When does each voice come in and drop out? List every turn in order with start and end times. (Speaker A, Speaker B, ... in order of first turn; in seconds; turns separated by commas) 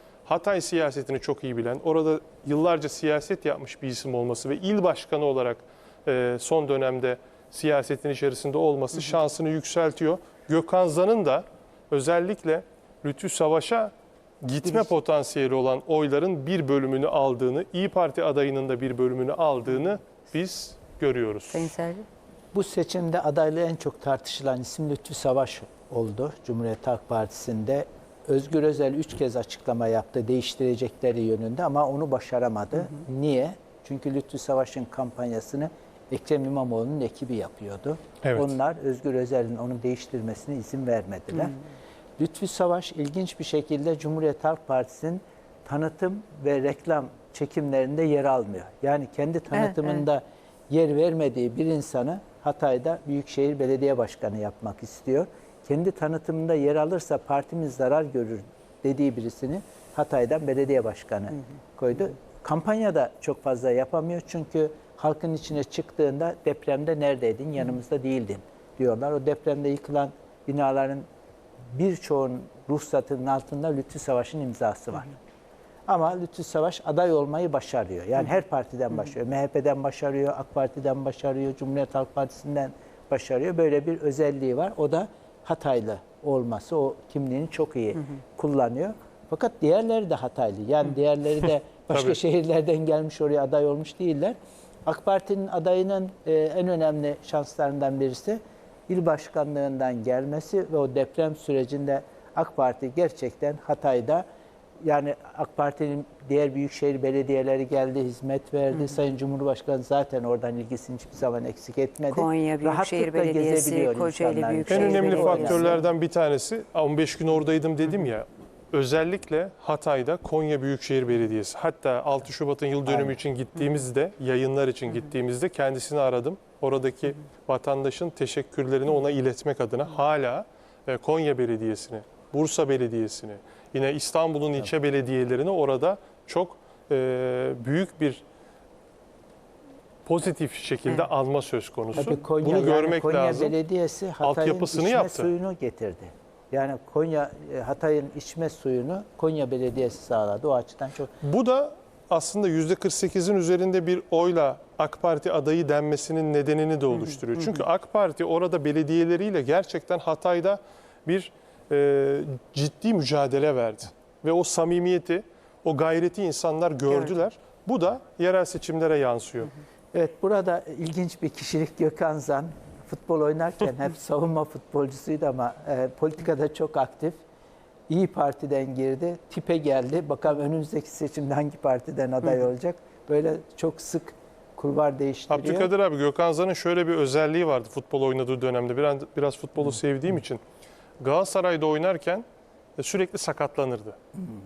Speaker A: 0.2-21.7, Speaker B: 21.5-22.1, Speaker C: 22.5-41.6, Speaker A: 38.2-38.6, Speaker C: 42.2-71.0, Speaker B: 49.5-50.0, Speaker C: 71.7-75.2, Speaker C: 75.9-94.3, Speaker C: 94.9-104.2, Speaker C: 104.8-115.8, Speaker B: 112.1-115.8, Speaker A: 114.7-138.2, Speaker C: 122.9-123.2, Speaker A: 140.1-143.6, Speaker C: 141.9-151.1, Speaker A: 144.2-145.3, Speaker A: 151.2-169.5, Speaker B: 157.0-157.6, Speaker C: 169.9-177.2, Speaker C: 177.9-185.7, Speaker A: 185.3-190.4, Speaker A: 191.0-192.2, Speaker A: 192.8-194.0